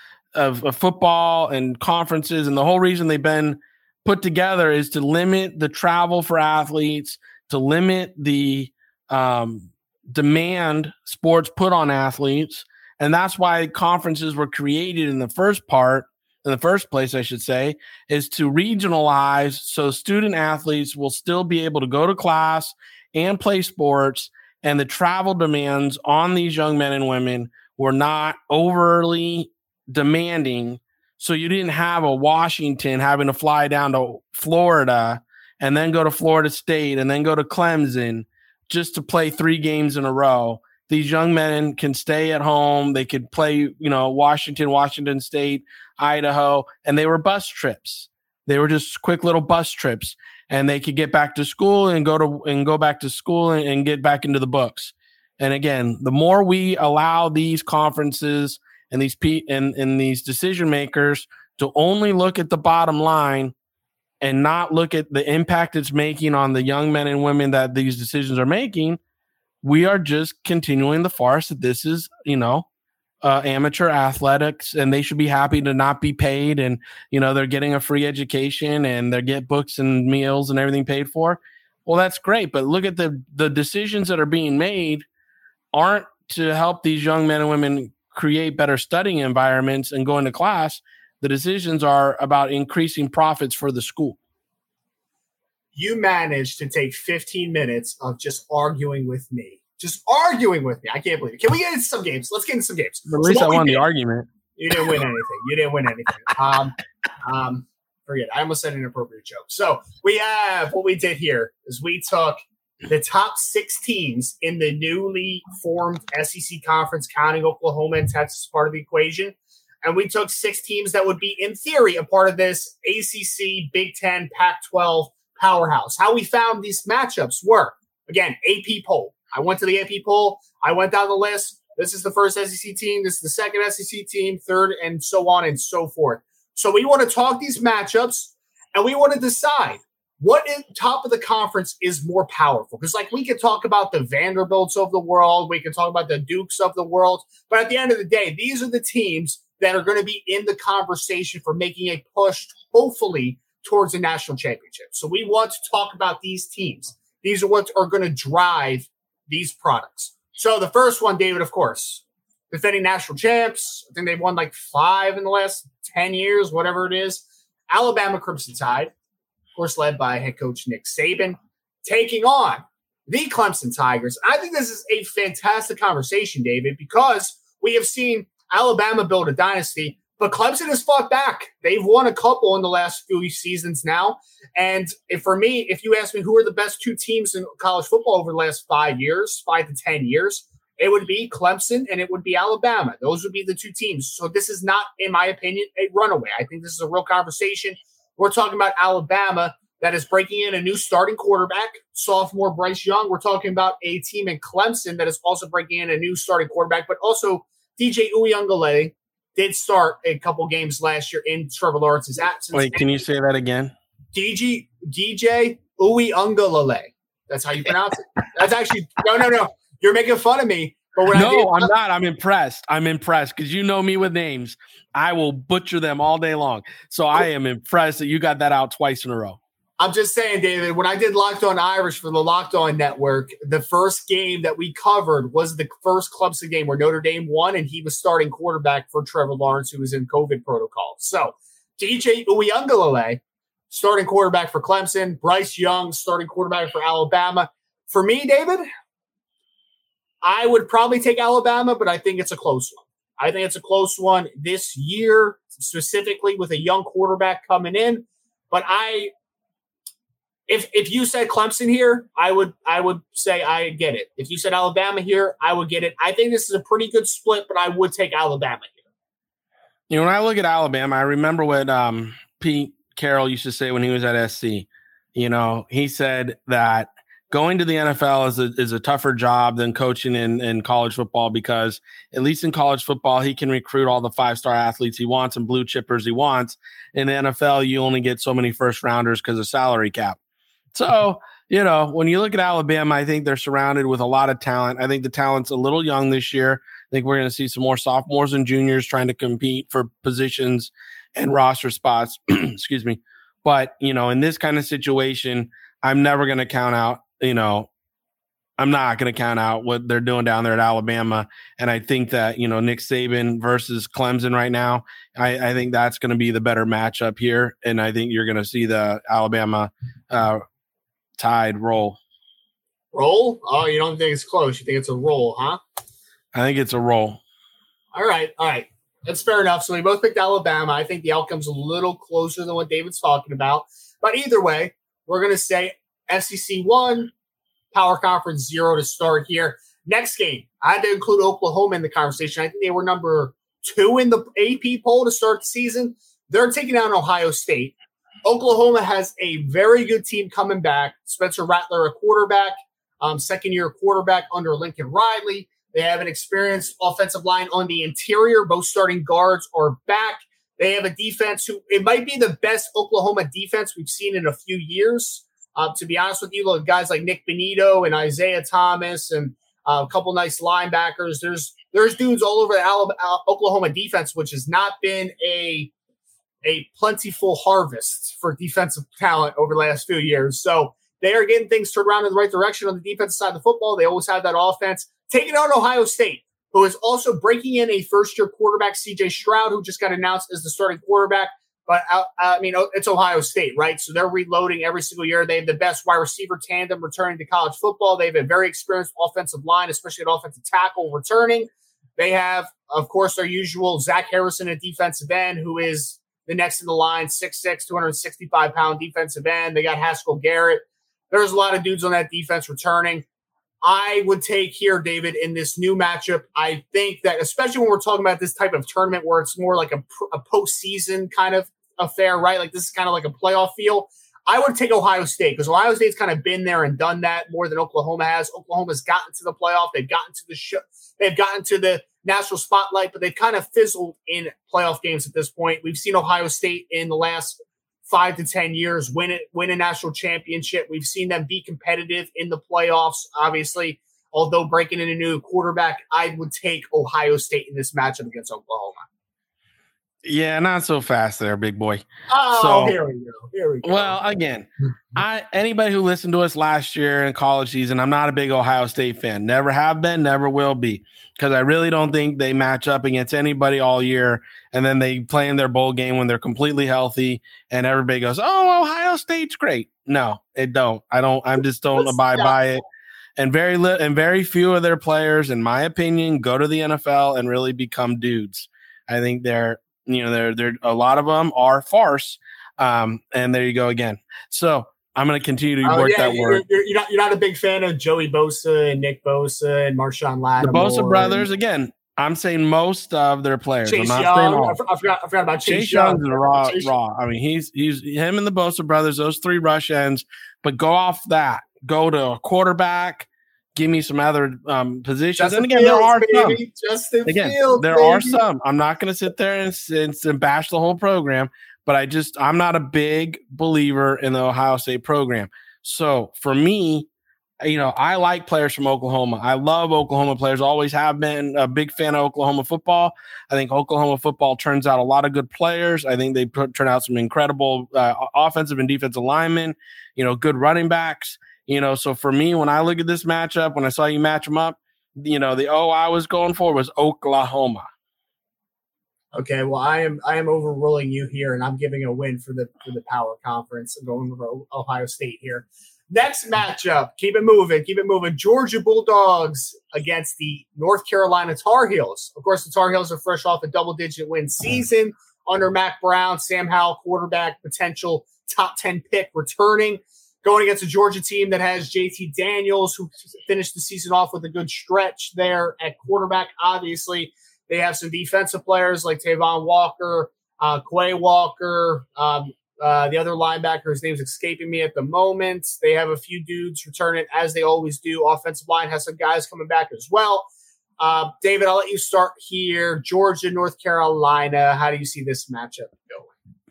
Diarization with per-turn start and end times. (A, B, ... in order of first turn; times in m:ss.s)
0:00.3-1:03.5 A
1:04.2-1:09.0 A
1:09.6-1:12.7 A
1:13.2-1:25.0 A
1:25.7-1:34.2 A
1:35.7-1:43.8 B
1:43.1-1:45.0 A
1:44.6-2:48.9 B
2:49.6-3:33.0 B
3:32.5-3:33.7 A
3:34.1-3:41.7 B
3:41.1-3:49.4 A
3:49.8-4:08.6 B
4:10.2-4:19.1 B
4:20.5-4:28.7 B
4:29.9-4:50.2 A
4:50.7-5:07.7 A
5:08.6-5:20.4 A
5:21.2-5:22.0 A
5:22.9-5:25.6 B
5:26.3-5:27.2 A
5:27.9-5:37.1 B
5:37.7-6:15.7 B
6:16.4-6:53.0 B
6:53.6-7:28.8 B
7:30.0-7:32.8 A
7:32.1-7:33.9 B
7:33.6-7:52.6 A
7:51.8-7:52.3 B
7:53.2-8:06.4 A
8:05.6-8:11.2 B
8:10.4-8:14.6 A
8:13.6-8:16.7 B
8:15.4-8:26.4 A
8:25.2-8:28.2 B
8:27.0-8:36.9 A
8:37.4-8:57.6 A
8:59.1-9:40.3 B
9:40.8-9:46.1 B